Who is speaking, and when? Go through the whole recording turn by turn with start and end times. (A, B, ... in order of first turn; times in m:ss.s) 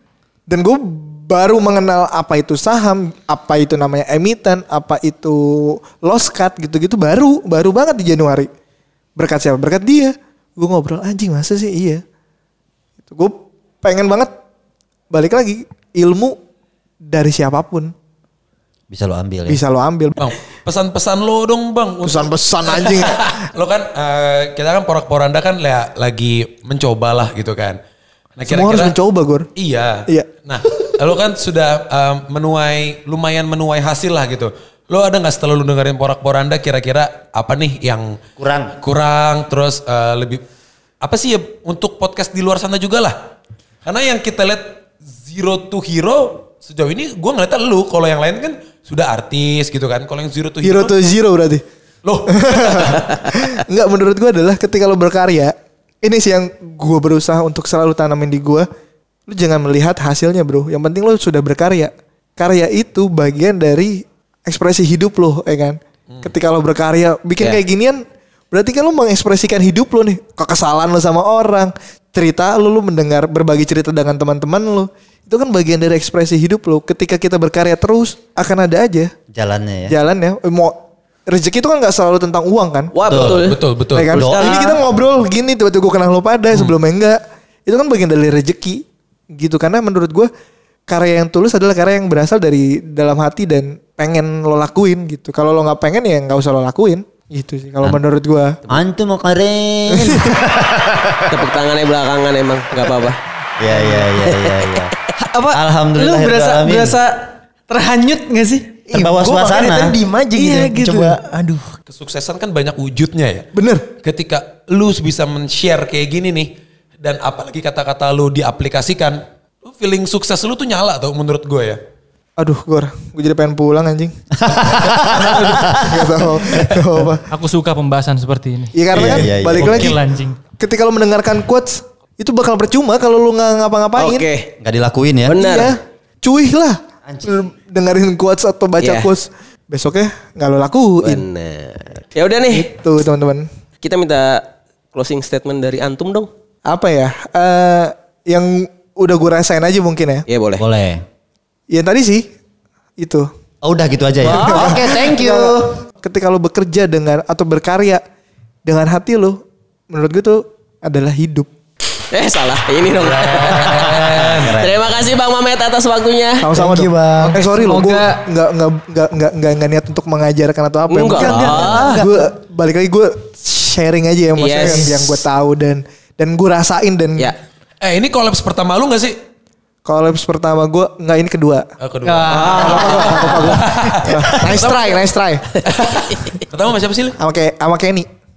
0:00.5-0:08.5 A
0:09.2-0:12.0 A
0:13.1-0:14.3 A
0:15.1-0:16.4 A
0:17.1-0:17.9 A
0:18.9-0:19.6 B
0:19.5-0:20.2 A
0:20.2-0:27.8 C
0:22.0-0:23.4 A
0:28.4-0:29.0 C
0:28.5-0:29.5 A
0:29.6-0:38.2 C
0:38.4-0:38.8 B
0:38.8-0:40.4 C
0:41.0-0:43.2 C
0:43.8-0:51.0 C
0:50.6-0:51.6 A
0:52.0-0:53.3 C
0:52.3-0:58.7 A
0:59.3-1:19.1 A
1:19.3-1:20.0 B
1:19.9-1:23.3 A
1:22.9-1:23.6 D
1:23.1-1:23.5 B
1:23.5-1:24.2 C
1:23.9-1:30.3 A
1:24.1-1:24.6 B
1:24.1-1:24.8 D
1:30.9-1:38.6 A
1:38.7-1:41.4 B
1:39.9-1:40.3 A
1:41.3-1:43.2 D
1:43.6-1:44.9 B
1:44.2-1:44.6 D
1:45.2-1:48.9 E
1:45.5-1:47.0 B
1:48.9-1:51.7 F
1:48.9-1:50.0 B
1:50.3-1:51.2 E
1:51.9-1:53.5 C
1:53.5-1:53.9 A
1:54.0-2:01.8 C
2:02.4-2:04.2 A
2:04.4-2:06.5 B
2:04.5-2:05.8 C
2:05.2-2:07.3 A
2:07.3-2:10.4 G
2:08.8-2:10.1 A
2:08.9-2:10.0 B
2:10.6-2:14.3 A
2:14.0-2:14.5 D
2:14.6-2:15.6 B
2:15.3-2:15.8 D
2:15.4-2:21.2 A
2:17.1-2:17.4 B
2:18.8-2:19.1 D
2:21.0-2:22.7 D
2:22.5-2:23.5 A
2:23.8-2:26.3 D
2:26.7-2:30.2 A
2:30.3-2:30.6 D
2:30.6-2:31.0 B
2:31.7-2:32.3 A
2:33.0-2:33.3 A
2:33.6-2:35.0 B
2:34.2-2:34.7 D
2:34.2-2:38.0 A
2:34.5-2:35.7 F
2:38.7-2:41.5 A
2:42.1-2:46.5 D
2:43.0-2:44.6 C
2:44.1-2:44.9 B
2:46.4-2:57.3 A
2:46.5-2:47.4 F
2:47.2-2:48.3 E
2:50.9-2:52.0 D
2:51.2-2:52.3 F
2:54.4-2:55.2 D
2:54.6-2:55.0 F
2:57.8-2:59.2 C
2:59.8-3:01.7 A
3:01.8-3:04.9 C
3:02.0-3:03.6 E
3:02.3-3:03.3 D
3:02.6-3:05.6 A
3:05.6-3:06.4 D
3:05.7-3:07.2 C
3:07.2-3:08.1 A